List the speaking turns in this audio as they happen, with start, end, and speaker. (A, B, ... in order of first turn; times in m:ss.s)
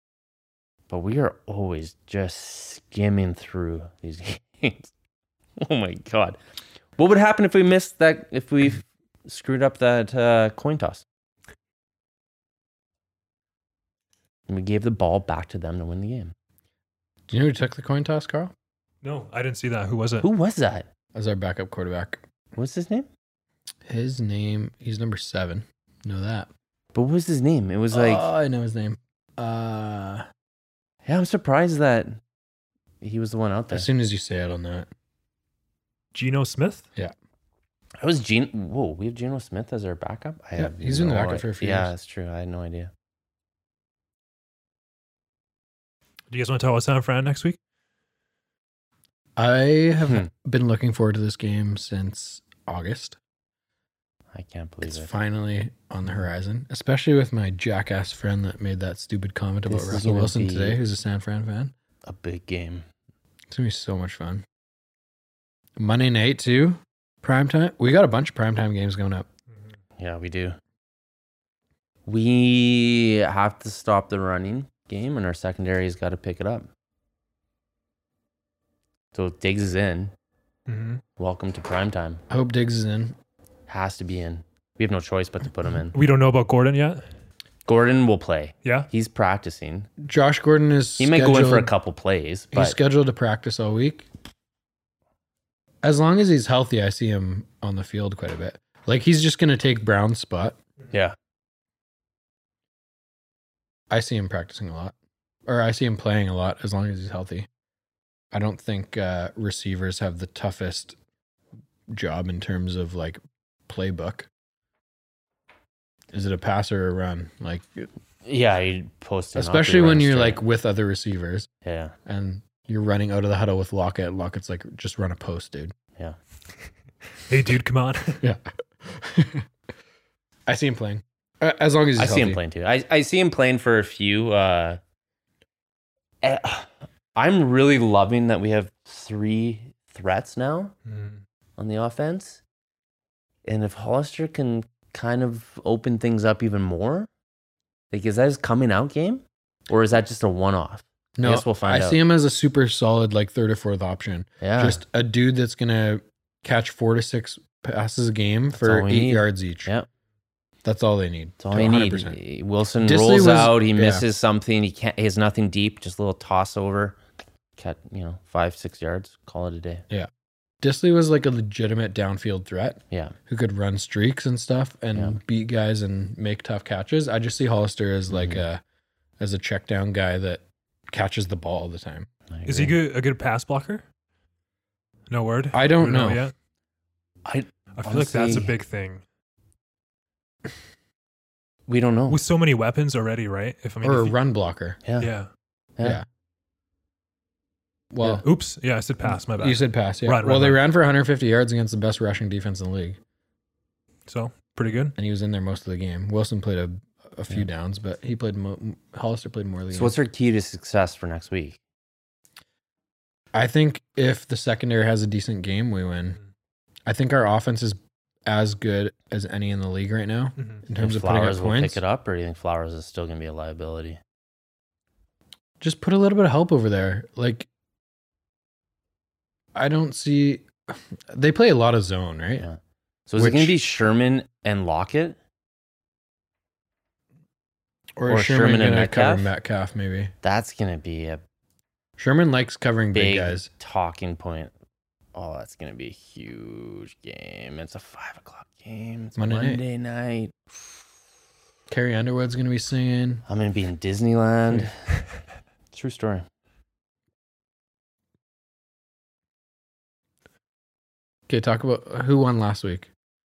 0:00.9-0:04.9 A
0:05.6-0:06.4 A
0:07.0-0:11.0 A
0:14.5-0:16.3 A
0:17.3-0:18.5 B
0:19.0-0:20.3 C
0:20.2-0:20.9 A
0:21.2-0:22.2 B
0:22.6-0:23.1 A
0:23.9-0:26.5 B
0:26.9-0:28.3 A
0:27.9-0:30.2 B
0:31.1-0:32.2 A
0:33.0-0:33.9 A
0:33.7-0:34.9 B
0:36.1-0:36.8 C
0:38.0-0:42.9 A
0:40.6-0:41.9 B
0:46.3-0:47.6 C
0:49.4-0:53.2 B
0:54.3-0:55.1 A
0:54.8-1:01.7 B
0:59.7-1:00.8 A
1:02.0-1:02.9 A
1:03.5-1:04.4 B
1:05.8-1:09.3 B
1:10.0-1:10.6 A
1:12.1-1:16.7 A
1:19.1-1:20.1 A
1:20.7-1:21.0 C
1:21.2-1:22.2 A
1:22.3-1:23.2 B
1:23.7-1:26.0 A
1:25.9-1:27.0 C
1:27.7-1:29.9 A
1:30.0-1:31.7 B
1:31.0-1:32.8 A
1:32.5-1:34.1 B
1:35.8-1:40.6 B
1:40.9-1:41.2 A
1:43.9-1:44.9 B
1:45.5-1:47.5 B
1:48.3-1:51.0 B
1:51.9-1:54.3 B
1:56.1-1:57.9 B
1:58.2-2:00.4 A
1:59.4-2:01.5 B
2:01.6-2:01.9 A
2:02.1-2:05.7 B
2:07.3-2:08.2 C
2:08.2-2:09.4 B
2:10.5-2:12.4 B
2:12.0-2:14.8 A
2:16.2-2:20.7 A
2:20.9-2:21.2 C
2:21.6-2:22.4 A
2:23.4-2:27.1 A
2:27.9-2:32.0 A
2:31.2-2:39.7 B
2:34.4-2:34.8 A
2:38.6-2:39.9 A
2:40.6-2:42.2 B
2:41.4-2:47.0 A
2:42.8-2:44.1 B
2:47.6-2:49.9 A
2:50.6-2:58.6 B
2:54.9-2:55.2 A
2:58.1-2:58.4 A
2:59.2-3:02.1 B
3:02.3-3:02.8 A
3:02.5-3:03.8 C
3:05.1-3:06.3 C
3:05.5-3:06.2 B
3:07.2-3:08.5 A
3:07.8-3:09.0 C
3:11.7-3:12.2 A
3:12.1-3:14.2 C
3:13.8-3:14.8 B
3:15.0-3:15.3 C
3:17.9-3:18.2 B
3:18.2-3:20.6 C
3:19.0-3:23.0 B
3:24.1-3:25.0 C
3:25.0-3:30.0 B
3:29.7-3:31.6 A
3:33.3-3:36.2 B
3:36.9-3:41.8 B
3:40.8-3:44.0 A
3:45.6-3:47.5 B
3:49.6-3:52.5 B
3:52.4-3:55.2 A
3:53.2-3:53.6 B
3:58.0-4:00.1 B
3:58.1-3:59.3 A
4:00.2-4:01.2 A
4:02.0-4:03.5 B
4:02.9-4:04.5 A
4:05.2-4:10.7 A
4:09.2-4:09.6 B
4:11.7-4:13.2 B
4:13.3-4:14.7 A
4:15.7-4:16.2 A
4:21.3-4:22.9 B